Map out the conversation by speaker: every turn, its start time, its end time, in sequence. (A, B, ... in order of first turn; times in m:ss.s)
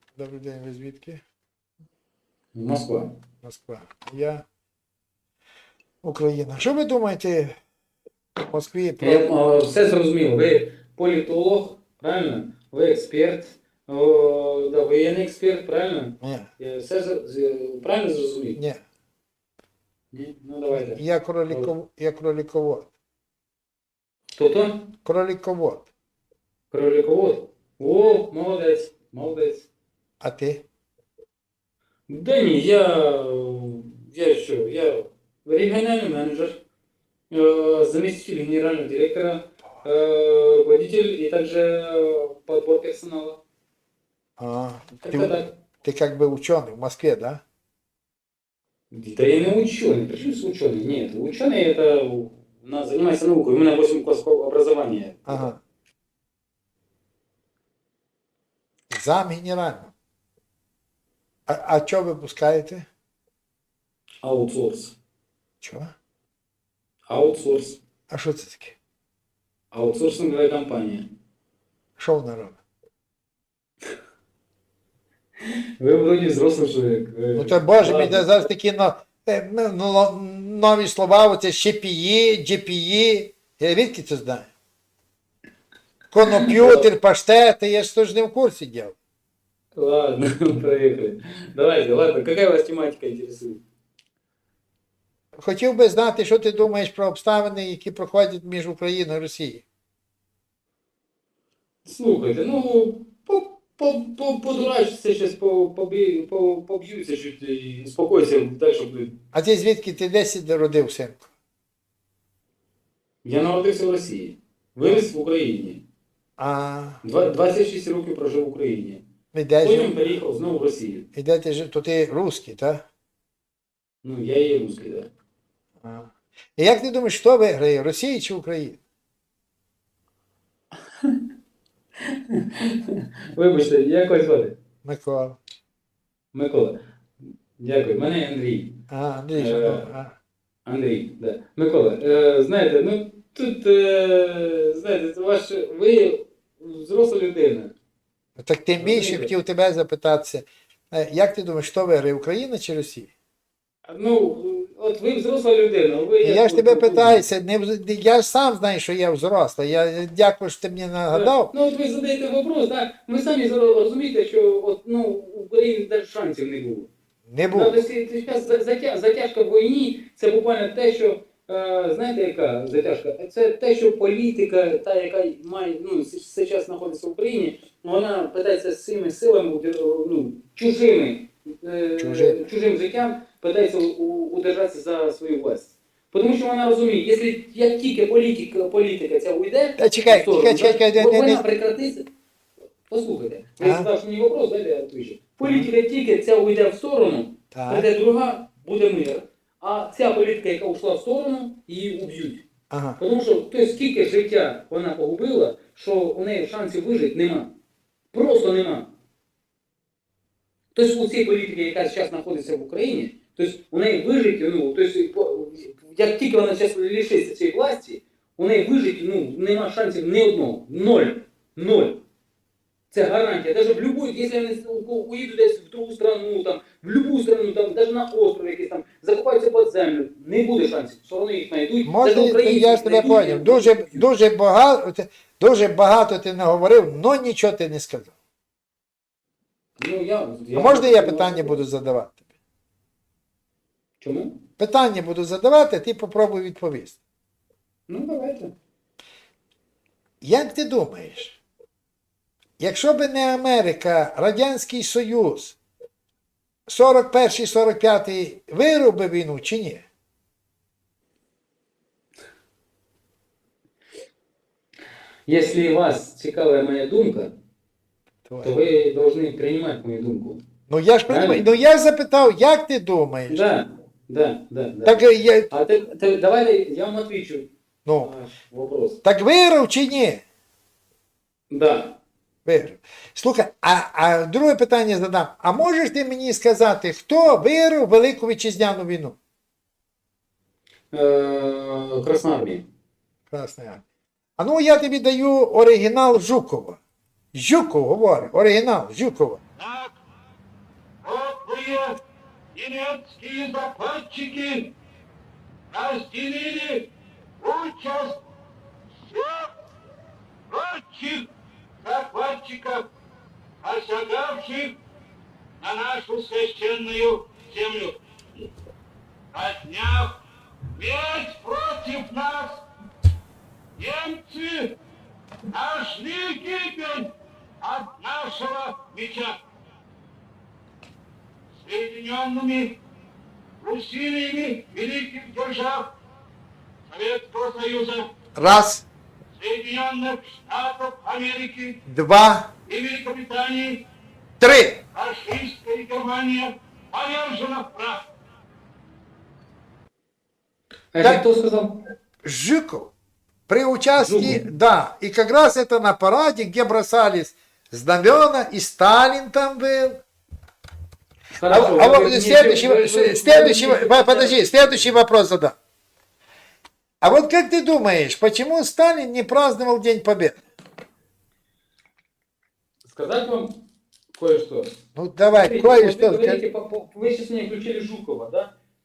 0:00.2-0:01.2 A
0:02.6-0:03.2 B
0:03.4-0:04.5 A
0:06.0-0:07.6 A
0:08.4-0:09.3 A
0:09.0-0:18.6 B
0:16.2-0:16.5 A
0:18.6-0:18.8 A
0:20.1-0:21.7 B
0:20.7-0:22.9 A
0:24.4-0:24.9 B
0:25.0-0:25.9 A
0:26.7-0:29.7 B
0:30.2-0:30.7 A
0:32.1-0:36.6 B
0:37.3-0:43.4 B
0:44.4-0:47.4 A
0:45.0-0:45.6 B
0:48.9-0:55.5 B
0:55.3-0:55.6 A
0:58.9-0:59.9 A
1:01.5-1:02.9 A
1:04.2-1:05.0 B
1:05.6-1:05.9 A
1:07.1-1:07.8 B
1:08.1-1:08.8 A
1:09.7-1:11.1 B
1:12.0-1:12.6 A
1:15.8-1:18.3 B
1:17.4-1:24.5 A
1:26.1-1:29.0 A
1:26.3-1:26.8 B
1:29.8-1:33.6 B
1:35.4-1:39.6 A
1:41.8-1:49.2 B
1:49.3-1:51.3 A
1:53.2-1:55.8 B
1:56.4-1:57.0 A
1:57.0-1:59.0 B
1:59.3-2:00.0 A
1:59.6-2:01.1 B
2:01.1-2:02.9 A
2:04.0-2:05.1 B
2:05.8-2:08.8 A
2:12.1-2:14.6 B
2:14.8-2:15.4 A
2:16.3-2:16.8 B
2:17.6-2:18.8 B
2:18.9-2:20.2 A
2:19.3-2:19.9 B
2:20.7-2:27.7 B
2:28.4-2:33.1 A
2:28.8-2:29.3 B
2:33.9-2:37.3 B
2:36.2-2:41.5 A
2:41.1-2:46.9 B
2:47.3-2:47.8 A
2:47.5-3:12.1 B
3:02.0-3:02.5 A
3:09.8-3:11.4 A
3:12.9-3:22.4 B
3:13.6-3:13.9 A
3:15.4-3:15.7 A
3:17.5-3:17.9 A
3:22.7-3:23.0 A
3:23.0-3:27.5 B
3:28.1-3:28.9 B
3:30.8-3:42.0 B
3:42.9-3:54.1 B
3:51.9-3:58.1 A
3:59.8-4:01.6 B
4:00.5-4:02.2 A
4:04.0-4:04.4 B
4:04.6-4:07.0 A
4:07.9-4:08.5 B
4:10.2-4:11.4 A
4:12.6-4:15.6 A
4:16.7-4:19.8 A
4:25.3-4:27.3 B
4:28.3-4:28.6 A
4:28.4-4:30.4 B
4:30.7-4:33.5 A
4:31.1-4:31.4 B
4:33.3-4:37.5 B
4:34.8-4:35.5 A
4:37.9-4:38.2 A
4:38.0-4:39.0 B
4:39.0-4:40.2 A
4:41.5-4:42.0 B
4:42.5-4:49.2 A
4:50.9-4:52.7 B
4:53.3-4:53.8 A
4:54.4-4:56.8 A
4:57.3-4:59.4 A
4:59.6-4:59.9 C
5:01.0-5:02.0 C
5:02.6-5:04.7 C
5:05.7-5:06.9 C
5:07.4-5:08.2 C
5:09.1-5:09.5 C
5:10.5-5:11.3 C
5:11.8-5:12.9 C
5:13.6-5:14.8 C
5:15.6-5:18.0 C
5:19.3-5:20.2 C
5:20.7-5:22.6 C
5:23.8-5:24.8 C
5:25.5-5:29.4 C
5:31.6-5:32.8 C
5:33.6-5:35.9 C
5:36.9-5:38.1 C
5:38.4-5:38.9 A
5:39.4-5:41.8 C
5:41.9-5:42.5 A
5:42.7-5:43.8 C
5:44.4-5:44.8 A
5:44.9-5:48.1 C
5:50.9-5:51.8 B
5:52.2-5:52.9 A
5:53.5-6:00.0 A
5:54.0-5:54.4 B
6:01.4-6:05.0 B
6:01.5-6:05.6 A
6:07.0-6:10.4 A
6:12.8-6:13.5 B
6:14.2-6:14.7 B
6:15.0-6:16.4 A
6:15.3-6:18.5 B